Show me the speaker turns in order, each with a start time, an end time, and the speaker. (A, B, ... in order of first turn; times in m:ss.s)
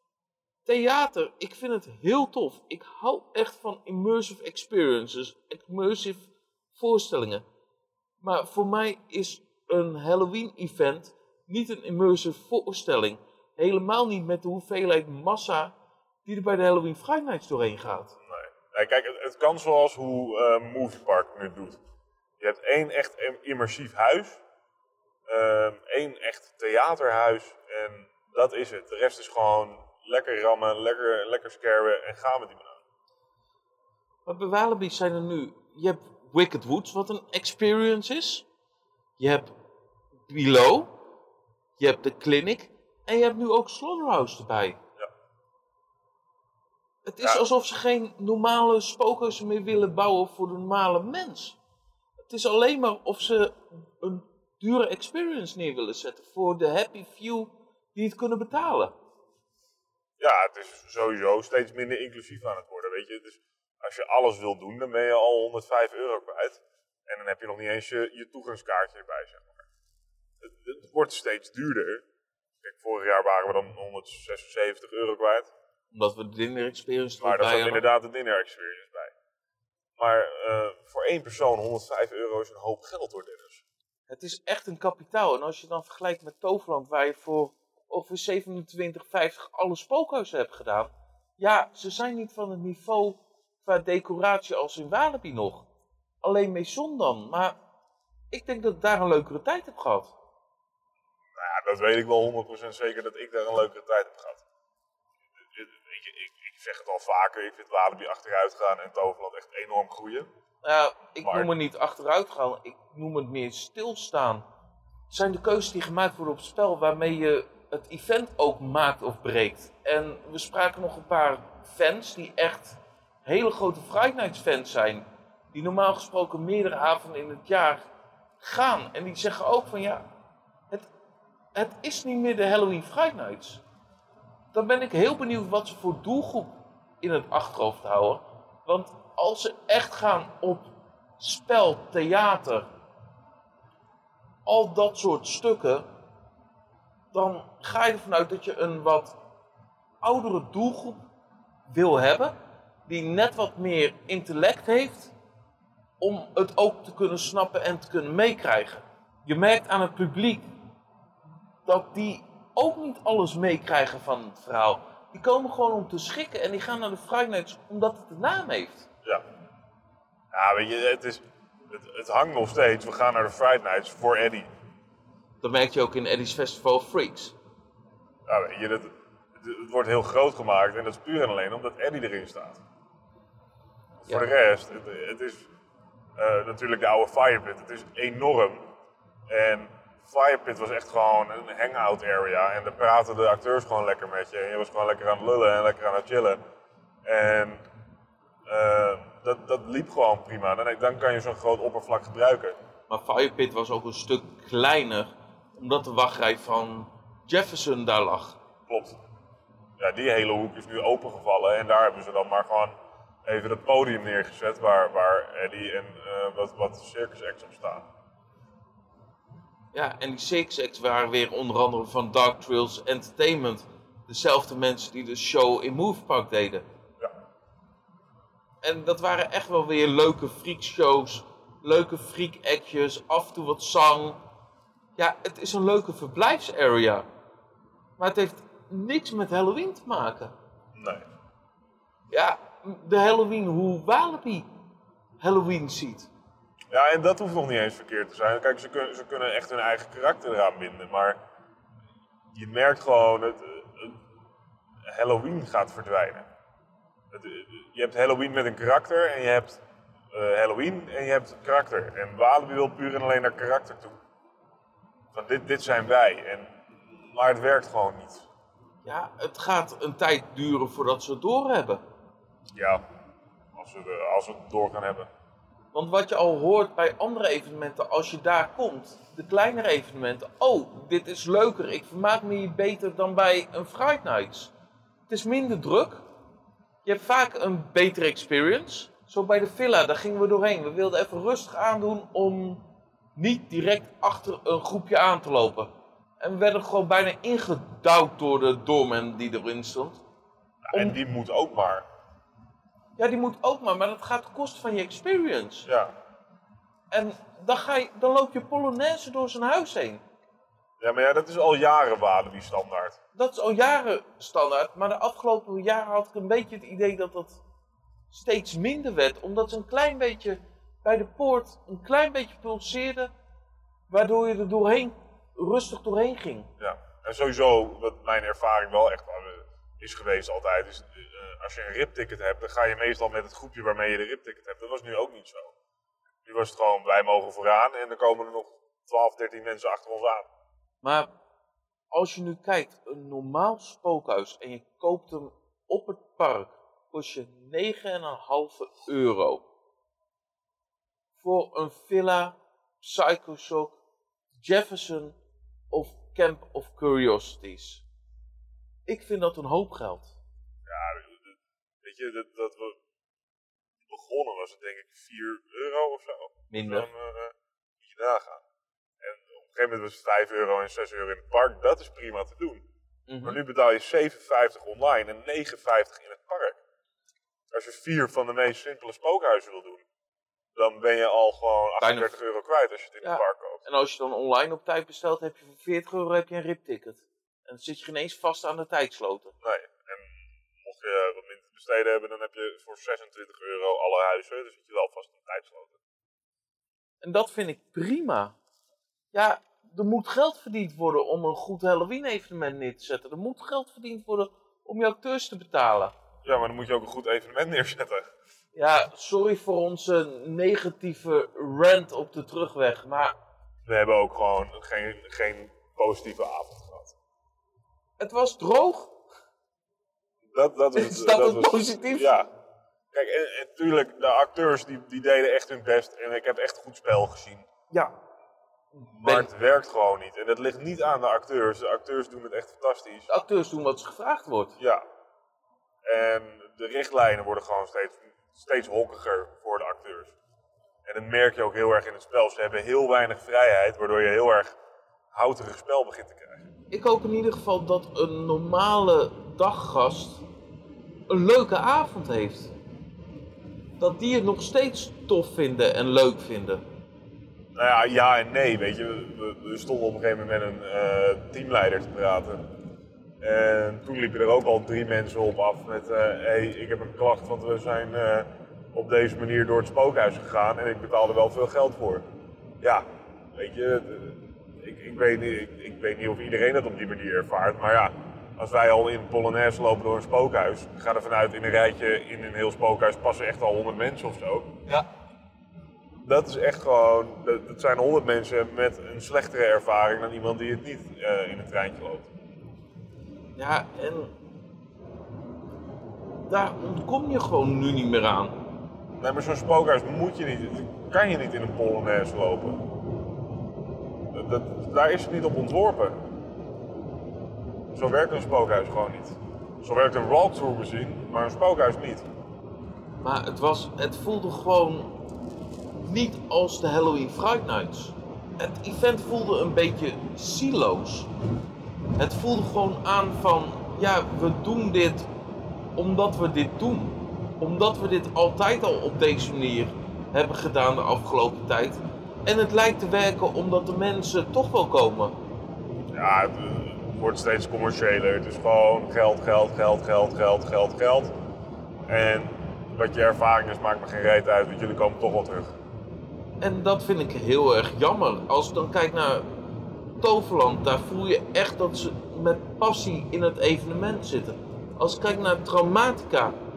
0:00.6-0:07.4 A
0:08.2-0:15.7 A
0:16.2-0:18.2 A
0:18.2-0:21.8 B
0:22.4-0:24.4 B
0:25.3-0:32.8 B
0:34.2-0:38.4 A
0:39.2-0:39.5 A
0:40.3-0:41.0 A
0:41.8-0:44.8 A
0:47.0-0:51.6 A
0:52.3-0:58.9 A
1:00.2-1:09.6 B
1:10.4-1:12.0 B
1:12.6-1:15.5 B
1:15.9-1:17.8 A
1:17.2-1:19.1 B
1:20.0-1:23.6 B
1:24.1-1:35.7 A
1:36.2-1:37.5 A
1:38.3-1:40.1 A
1:41.4-1:44.4 B
1:45.4-1:50.3 B
1:50.6-1:54.4 A
1:51.2-1:51.5 B
1:55.1-2:07.8 A
2:08.4-2:10.1 A
2:11.5-2:13.6 A
2:14.5-2:22.7 A
2:24.4-2:25.9 A
2:27.1-2:29.2 A
2:30.0-2:31.0 A
2:31.7-2:32.3 A
2:32.9-2:35.1 A
2:36.0-2:40.5 A
2:41.6-2:48.9 A
2:50.3-2:54.5 B
2:55.4-2:57.3 A
2:58.3-3:02.6 B
3:04.0-3:05.5 B
3:06.2-3:08.7 B
3:09.3-3:16.4 B
3:17.0-3:17.6 B
3:18.5-3:22.6 B
3:22.9-3:28.4 A
3:28.7-3:29.0 B
3:29.8-3:32.7 B
3:33.2-3:37.9 B
3:39.7-3:46.6 A
3:48.6-3:54.2 A
3:55.0-3:57.0 A
3:58.0-4:00.3 A
4:00.7-4:01.1 B
4:02.1-4:04.5 A
4:05.2-4:06.1 A
4:06.7-4:11.2 B
4:12.3-4:14.0 B
4:14.9-4:16.3 B
4:17.1-4:24.0 B
4:25.1-4:28.3 B
4:28.8-4:31.8 A
4:32.5-4:32.8 B
4:33.5-4:35.1 B
4:35.7-4:44.5 A
4:45.1-4:46.0 A
4:46.8-5:00.0 A
5:00.6-5:01.8 B
5:00.7-5:01.0 A
5:03.0-5:05.7 A
5:05.7-5:05.9 B
5:06.9-5:10.0 A
5:10.8-5:13.0 B
5:13.1-5:17.4 A
5:18.1-5:23.1 A
5:23.9-5:26.5 A
5:26.6-5:35.5 B
5:36.2-5:40.3 B
5:40.8-5:41.1 A
5:41.9-5:49.4 A
5:51.2-5:53.8 A
5:54.4-5:55.2 A
5:55.7-5:57.8 A
5:58.8-6:00.1 A
6:00.6-6:02.8 B
6:03.9-6:08.4 B
6:06.5-6:06.9 A
6:09.0-6:12.6 B
6:13.1-6:13.4 A
6:13.2-6:16.6 B
6:17.5-6:19.8 B
6:20.5-6:23.6 B
6:21.8-6:22.1 A
6:23.0-6:29.3 A
6:29.4-6:35.8 B
6:37.0-6:38.4 A
6:39.1-6:45.9 A
6:46.2-6:48.1 B
6:48.5-6:53.1 A
6:53.6-6:56.9 B
6:58.0-6:58.9 A
7:00.3-7:02.3 B
7:00.7-7:02.1 A
7:02.9-7:07.5 B
7:08.8-7:09.3 A
7:08.9-7:13.1 B
7:13.1-7:14.6 A
7:14.6-7:14.8 B
7:15.9-7:20.1 B
7:20.8-7:24.6 B
7:25.1-7:26.5 B
7:26.7-7:30.2 A
7:31.1-7:32.5 A
7:33.8-7:36.6 A
7:37.5-7:42.4 B
7:43.2-7:52.0 B
7:52.6-8:04.8 B
8:06.0-8:12.1 B
8:13.4-8:14.1 A
8:16.3-8:18.4 A
8:19.0-8:22.7 B
8:24.1-8:26.0 B
8:27.7-8:32.0 B
8:33.0-8:35.0 A
8:35.8-8:41.1 A
8:42.0-8:45.1 A
8:45.7-8:55.2 A
8:55.9-9:01.1 B
9:01.9-9:05.6 B
9:06.4-9:09.3 A
9:10.0-9:16.3 A